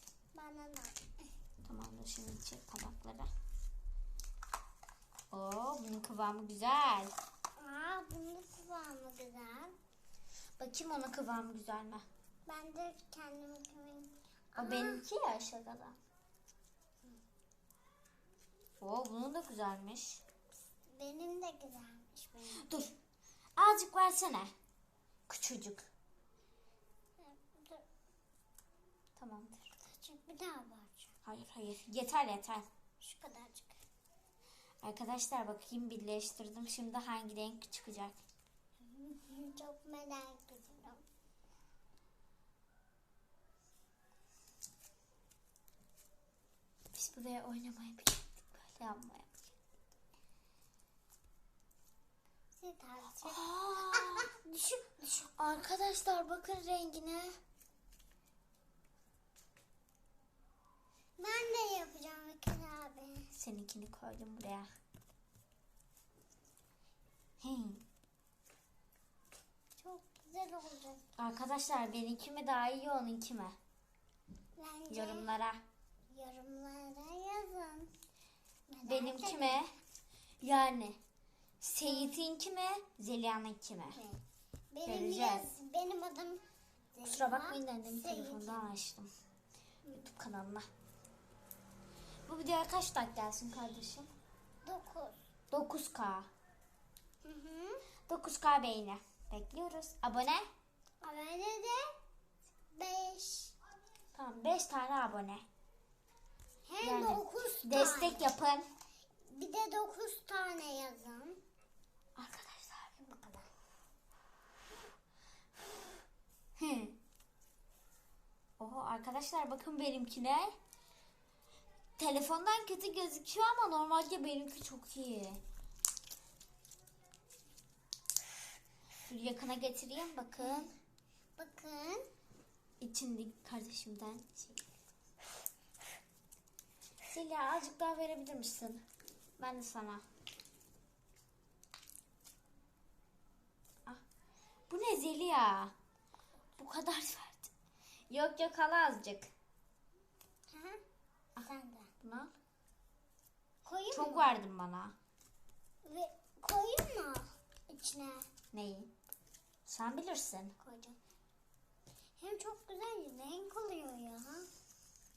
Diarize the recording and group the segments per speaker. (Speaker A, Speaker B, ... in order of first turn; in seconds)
Speaker A: 0.3-1.1, 7.6-9.7, 12.5-15.0, 20.9-22.8, 27.2-27.8, 29.8-31.1, 33.0-33.8, 38.8-41.0, 52.5-54.3, 61.2-63.3, 69.8-71.1, 74.6-75.3, 76.1-77.9, 78.7-79.6, 81.9-82.2, 83.9-84.2, 84.7-88.7, 89.8-90.1, 94.6-95.2, 97.2-97.8, 101.0-101.8, 102.7-103.5, 106.7-108.3, 109.3-111.4, 113.0-113.5, 131.4-132.1, 150.5-150.8, 151.4-151.9, 153.6-154.3, 155.8-158.3, 160.6-161.0, 162.2-164.5
Speaker B: 1.6-3.3, 5.3-7.1, 10.6-12.1, 14.6-16.0, 18.8-20.2, 22.6-23.0, 23.6-24.5, 25.3-25.9, 29.2-29.7, 31.2-32.7, 34.8-38.1, 46.9-49.5, 53.2-57.4, 63.3-64.7, 67.4-67.8, 71.2-73.6, 74.9-75.6, 78.8-79.7, 80.4-81.0, 81.6-84.0, 84.8-85.5, 87.1-89.1, 89.9-90.7, 92.3-94.1, 95.5-96.3, 98.1-100.5, 104.1-105.5, 106.8-108.7, 112.2-113.0, 116.6-117.0, 118.6-120.5, 122.0-125.4, 129.1-130.7, 132.8-134.6, 137.1-138.8, 139.4-140.0, 144.7-145.7, 146.6-147.5, 148.1-149.3, 152.0-152.3, 153.9-154.9, 158.5-158.9, 159.7-160.5